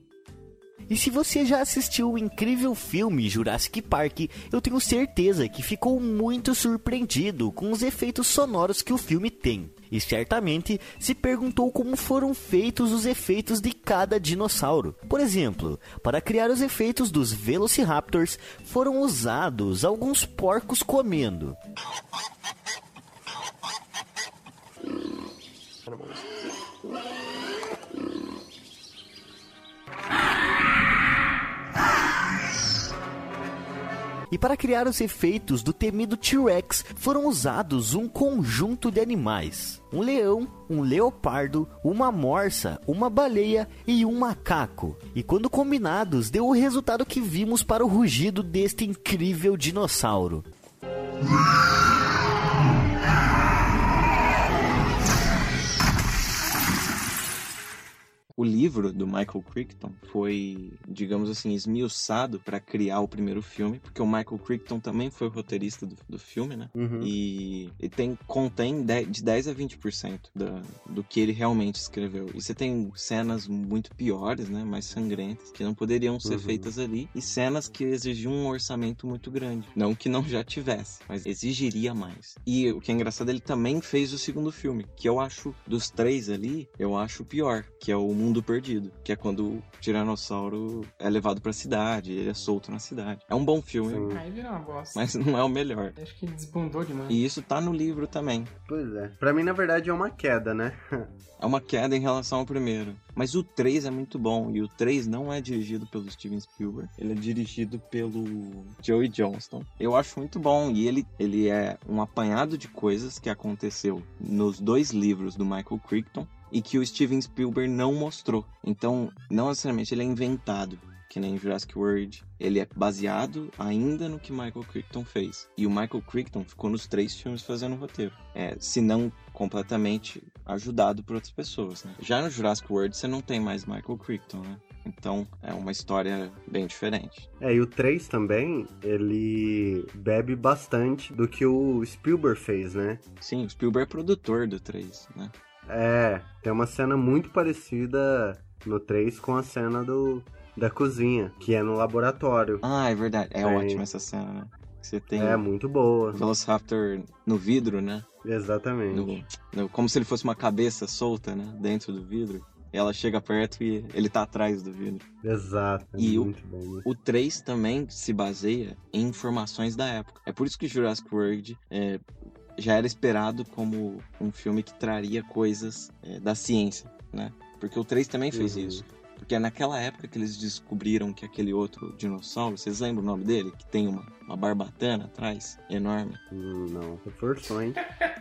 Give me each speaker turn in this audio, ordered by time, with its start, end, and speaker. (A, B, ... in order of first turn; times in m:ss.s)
0:00.9-0:21.6 A
0:34.3-0:50.4 A
0:58.4-1:34.2 B
1:06.8-1:07.1 C
1:16.2-1:16.7 C
1:33.9-1:34.2 C
1:34.1-1:35.0 D
1:34.9-1:36.0 B
1:36.0-1:37.2 D
1:37.1-1:38.5 B
1:38.7-1:41.1 C
1:41.4-2:17.3 B
2:17.4-2:23.0 C
2:23.2-2:25.3 B
2:25.7-2:32.6 C
2:32.6-2:35.4 B
2:33.4-2:33.8 C
2:35.1-2:36.2 C
2:36.1-2:38.0 B
2:38.2-2:39.2 C
2:38.9-2:45.1 B
2:45.2-2:46.8 C
2:46.0-2:46.3 B
2:46.8-2:52.0 B
2:52.6-3:06.2 B
2:58.3-2:58.8 C
3:06.3-3:07.8 C